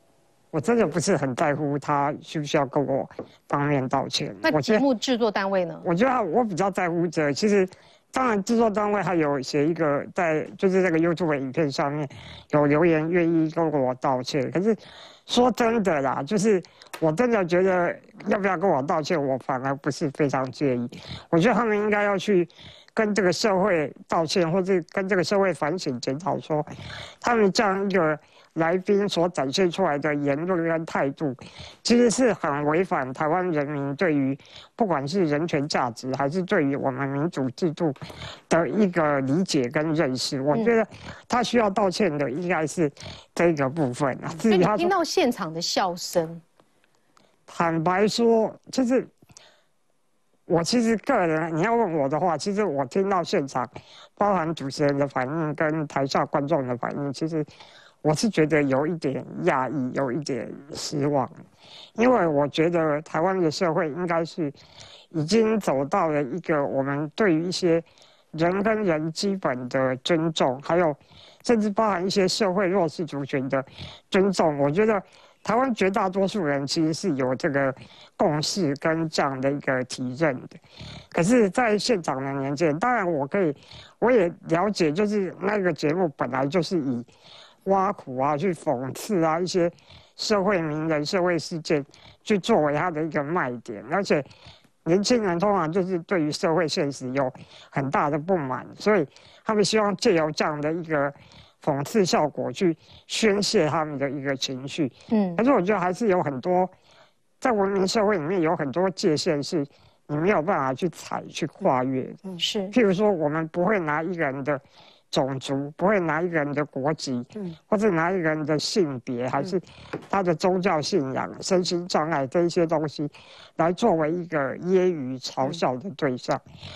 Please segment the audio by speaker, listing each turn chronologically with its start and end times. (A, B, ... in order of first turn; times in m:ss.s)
0:00.5-0:04.9 A
0:04.4-0:05.9 B
0:05.8-0:26.7 A
0:27.2-0:38.0 A
0:38.5-0:44.9 A
0:44.5-0:46.4 B
0:47.5-0:49.1 A
0:50.5-0:57.5 A
0:58.0-1:01.3 A
1:02.0-1:04.6 A
1:05.1-1:20.6 A
1:21.1-1:27.1 A
1:27.6-1:34.3 A
1:34.8-1:46.7 A
1:45.1-1:45.4 B
1:47.4-2:06.4 A
1:52.4-1:52.7 B